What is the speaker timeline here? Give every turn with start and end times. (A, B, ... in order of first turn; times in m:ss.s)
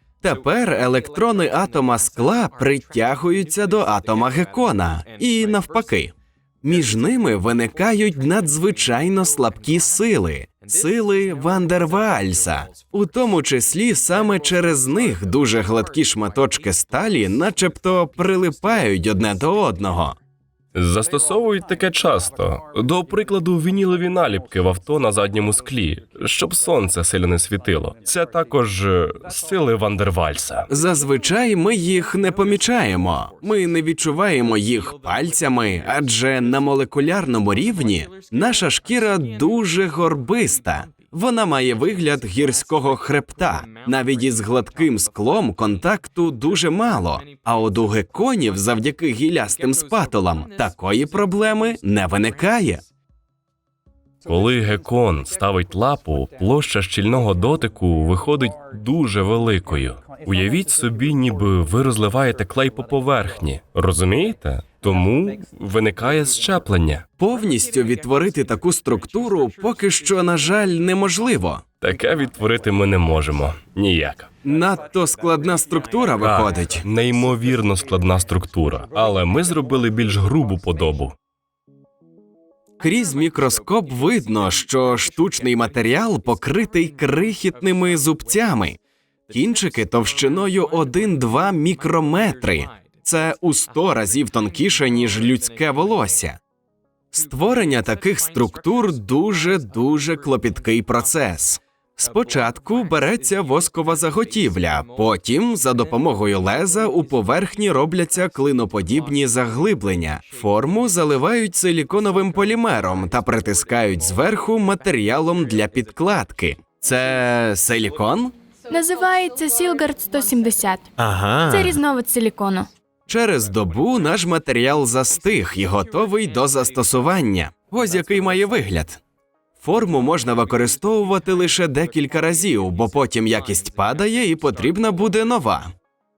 0:00.2-0:20.2 A
0:20.8-0:30.7 B
0:30.7-0:52.8 A
0:54.3-1:07.1 B
1:07.2-1:11.6 A
1:11.8-1:14.3 B
1:14.4-1:16.9 A
1:16.2-1:21.2 B
1:22.8-1:28.8 A
1:29.3-1:36.4 A
1:37.1-1:58.3 A
1:58.7-2:00.9 C
2:01.0-2:01.8 A
2:01.5-2:02.7 C
2:03.1-2:09.0 A
2:09.6-2:15.7 A